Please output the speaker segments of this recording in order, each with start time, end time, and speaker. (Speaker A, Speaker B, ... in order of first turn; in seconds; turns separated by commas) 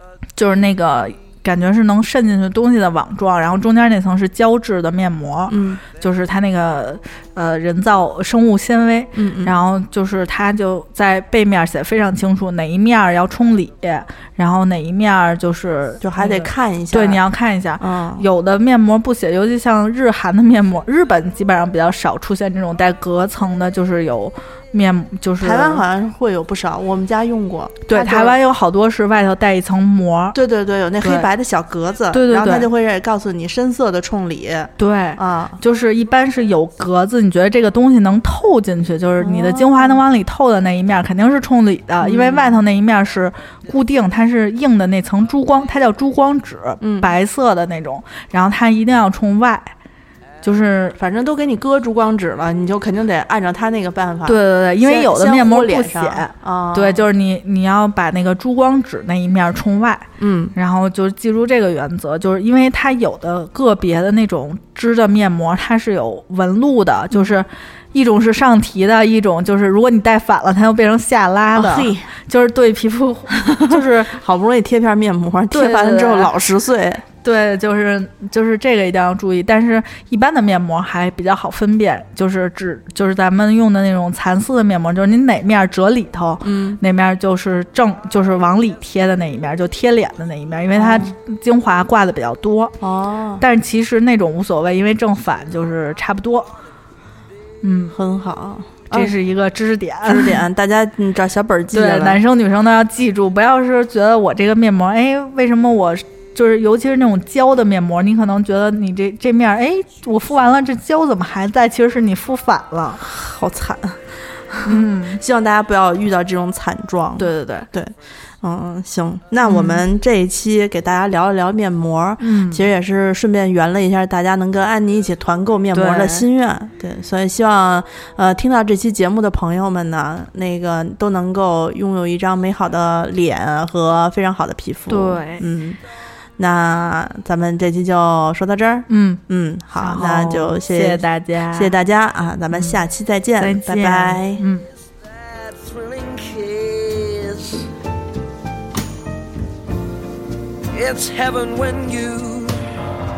Speaker A: 0.4-25.8, Speaker B: 5.5-5.8, Speaker B: 9.2-9.5, Speaker B: 16.0-17.2, Speaker B: 17.8-18.3, Speaker B: 25.4-28.4, Speaker A: 27.9-30.4, Speaker B: 30.3-35.6, Speaker A: 31.0-31.3, Speaker A: 32.1-32.7, Speaker A: 34.8-49.7, Speaker B: 39.2-40.0, Speaker B: 42.0-42.6, Speaker B: 46.8-47.1, Speaker A: 50.4-51.0, Speaker B: 51.0-57.1, Speaker A: 54.3-74.1, Speaker B: 60.2-60.5, Speaker B: 71.5-72.1, Speaker B: 73.5-77.0, Speaker A: 75.5-76.3, Speaker A: 77.2-92.8, Speaker B: 86.4-86.8, Speaker B: 90.7-91.1, Speaker B: 92.8-93.4, Speaker A: 93.4-96.5, Speaker A: 97.6-98.0, Speaker B: 97.9-99.2, Speaker A: 98.9-100.4, Speaker B: 100.0-102.2, Speaker A: 101.7-113.0, Speaker B: 113.0-114.0, Speaker B: 114.5-135.8, Speaker A: 114.7-115.2, Speaker A: 117.2-117.7, Speaker A: 119.5-119.8, Speaker A: 122.2-122.7, Speaker A: 125.7-126.3, Speaker A: 134.9-135.5, Speaker B: 136.4-144.4, Speaker A: 138.9-139.2, Speaker A: 139.8-141.7, Speaker A: 142.5-142.8, Speaker A: 143.4-144.7, Speaker C: 145.0-147.7, Speaker C: 150.7-152.7